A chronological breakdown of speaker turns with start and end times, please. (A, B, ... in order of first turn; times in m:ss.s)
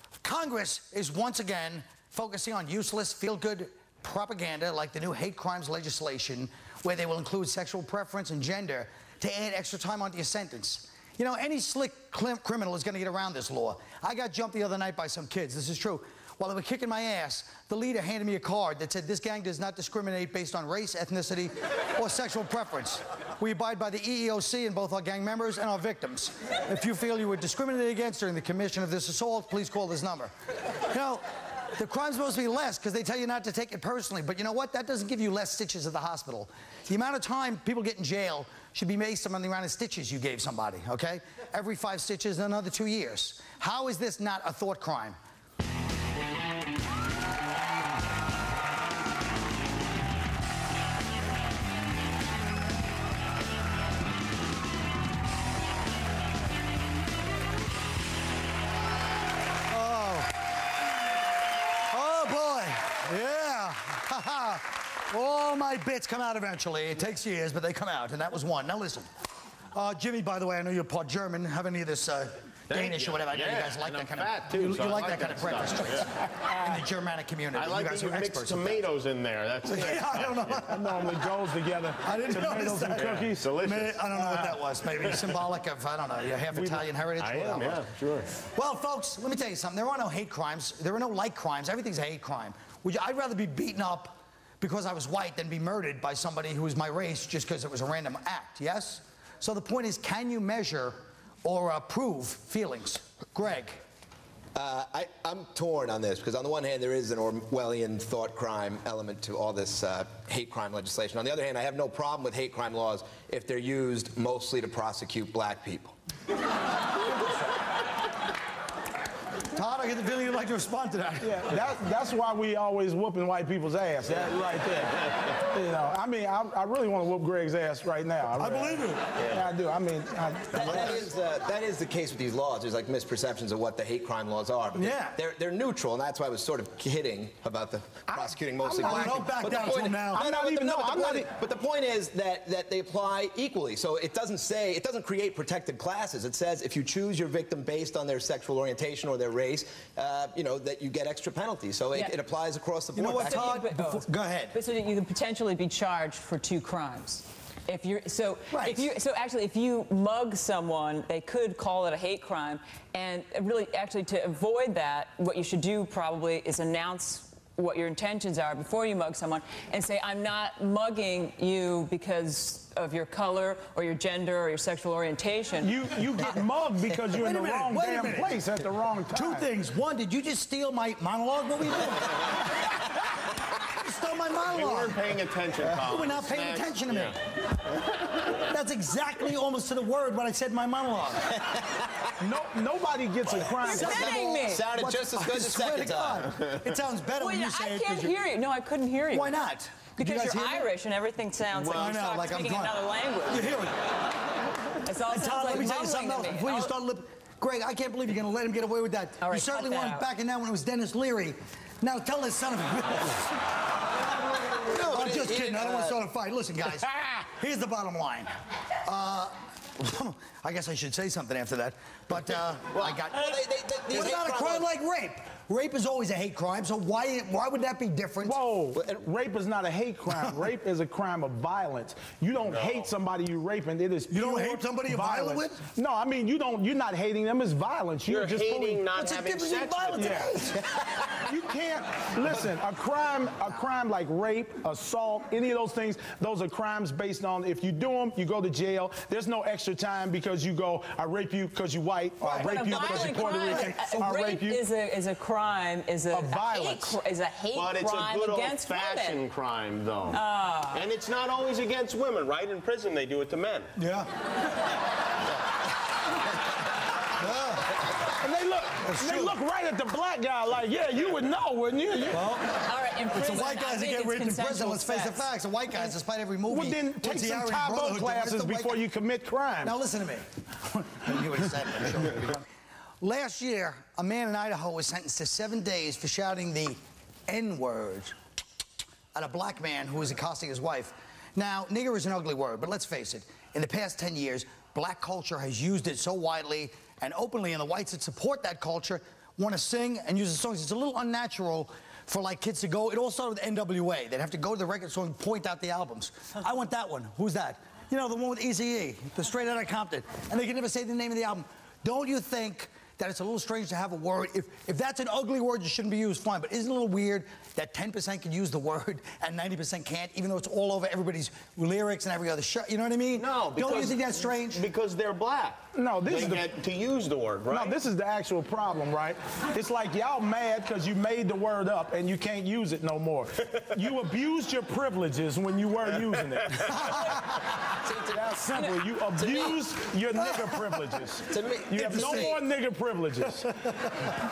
0:00.2-0:30.3 A
0:30.9-0:31.2 A
0:31.8-0:45.2 A
0:59.7-1:00.4 A
1:01.9-1:09.1 A
1:09.7-1:18.9 A
1:12.7-1:16.2 B
1:17.5-1:20.7 B
1:19.7-1:21.2 A
1:20.7-1:23.5 C
1:22.0-1:27.9 A
1:22.9-1:25.2 B
1:27.2-1:28.3 B
1:28.4-1:43.8 A
1:44.6-1:56.0 D
1:59.5-2:01.4 A
2:01.2-2:11.0 C
2:08.4-2:09.0 A
2:10.5-2:33.6 D
2:14.8-2:15.2 A
2:18.1-2:21.3 C
2:18.8-2:20.3 A
2:32.9-2:34.6 A
2:33.2-2:55.8 E
2:38.5-2:38.9 A
2:55.6-2:59.5 C
2:57.1-2:58.5 A
2:59.1-3:02.8 A
3:03.7-3:05.0 A
3:04.5-3:07.2 B
3:05.6-3:07.2 A
3:08.3-3:11.4 A
3:11.8-3:12.1 D
3:12.2-3:14.4 C
3:13.6-3:14.6 E
3:13.7-3:18.2 A
3:14.4-3:16.5 D
3:17.2-3:19.4 E
3:19.1-3:20.7 A
3:20.0-3:23.7 E
3:21.6-3:22.0 B
3:21.7-3:23.8 A
3:24.8-3:26.8 E
3:25.1-3:33.3 A
3:29.2-3:30.1 E
3:34.7-3:38.3 A
3:34.7-3:36.0 D
3:38.9-3:48.4 A
3:42.7-3:44.7 D
3:48.2-3:58.9 C
3:48.7-3:49.1 D
3:50.1-3:50.4 A
3:52.4-3:52.9 B
3:54.1-3:55.6 A
3:58.1-4:00.2 B
3:59.0-4:00.6 A
4:00.0-4:00.4 C
4:00.5-4:01.4 D
4:01.3-4:14.6 C
4:12.2-4:13.8 A
4:12.2-4:19.2 E
4:16.1-4:17.0 C
4:17.5-4:20.2 B
4:20.1-4:20.9 E
4:20.7-4:23.7 B
4:23.8-4:24.1 A
4:27.2-4:27.8 A
4:28.2-4:32.3 C
4:28.8-4:29.4 A
4:32.1-4:32.5 A
4:32.6-4:35.3 E
4:33.1-4:38.9 A
4:36.5-4:39.8 C
4:39.6-4:42.4 A
4:43.0-4:48.2 A
4:49.1-5:24.6 A
5:23.2-5:27.8 B
5:25.7-5:26.5 C
5:27.5-5:37.0 C
5:36.7-5:37.5 A
5:37.6-5:38.6 D
5:38.1-5:43.5 C
5:39.2-5:39.6 D
5:41.3-5:42.4 D
5:41.9-5:42.3 A
5:43.5-5:44.1 A